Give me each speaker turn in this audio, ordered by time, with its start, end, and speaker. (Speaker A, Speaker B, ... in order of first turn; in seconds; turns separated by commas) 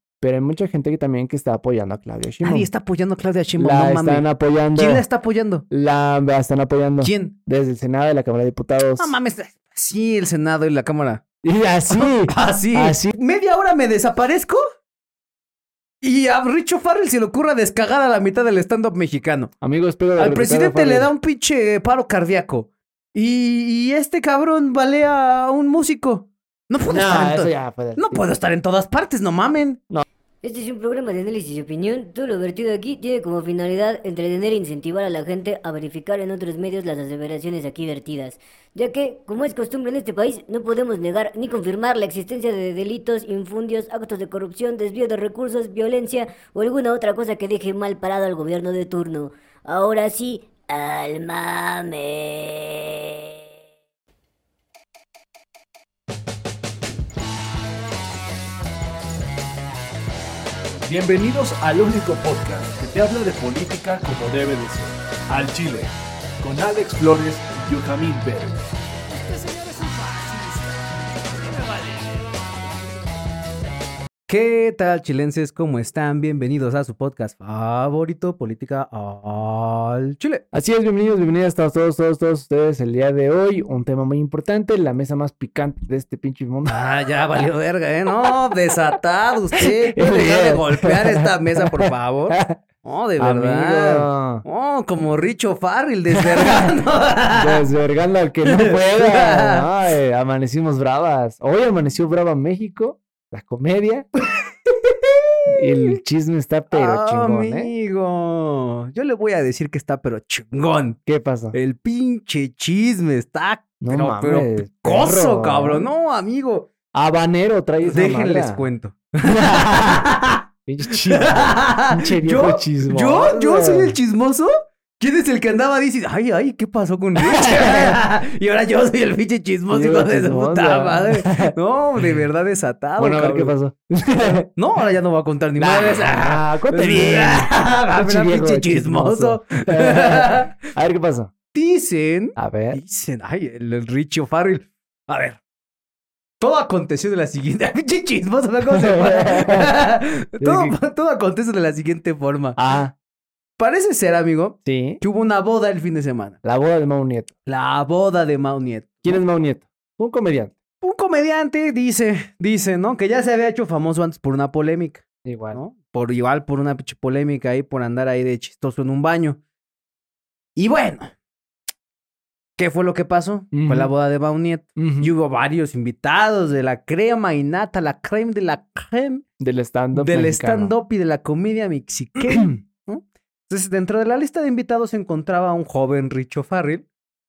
Speaker A: 0.2-2.7, Speaker B: 2.4-5.6, Speaker A: 3.6-5.0, Speaker A: 5.7-9.1, Speaker B: 7.0-7.3, Speaker B: 9.0-11.2, Speaker A: 11.4-13.1, Speaker B: 11.9-14.6, Speaker B: 16.0-19.5, Speaker A: 19.6-21.1, Speaker B: 20.2-29.8, Speaker A: 26.9-28.2, Speaker C: 30.4-53.2, Speaker D: 60.8-68.6, Speaker B: 69.1-72.4, Speaker B: 74.3-80.4, Speaker A: 80.5-86.8, Speaker B: 86.7-97.6, Speaker A: 89.6-92.6, Speaker A: 93.2-94.4, Speaker A: 96.1-96.7, Speaker A: 97.3-104.1, Speaker B: 98.5-99.7, Speaker B: 104.7-105.9, Speaker A: 105.5-107.7, Speaker B: 106.7-111.0, Speaker A: 111.0-111.5, Speaker B: 111.5-116.7, Speaker A: 113.8-115.9, Speaker A: 116.9-118.6, Speaker B: 117.8-133.5, Speaker A: 119.3-120.1, Speaker A: 120.7-123.9, Speaker A: 127.2-128.0, Speaker A: 129.7-131.5, Speaker A: 133.0-134.5, Speaker B: 134.5-140.7, Speaker A: 135.6-141.3, Speaker B: 141.5-145.4, Speaker A: 142.4-142.8, Speaker B: 146.4-152.6, Speaker A: 148.7-149.7, Speaker A: 150.4-150.8, Speaker A: 152.6-152.9, Speaker B: 153.6-156.4, Speaker A: 154.6-155.0, Speaker A: 156.4-157.3, Speaker B: 157.4-159.2, Speaker A: 159.0-160.6, Speaker B: 160.8-169.4, Speaker A: 165.2-165.6, Speaker B: 170.6-171.1, Speaker B: 172.6-179.2, Speaker A: 173.5-173.9, Speaker A: 174.8-175.1, Speaker A: 179.4-180.7, Speaker B: 179.9-186.8, Speaker A: 182.3-182.6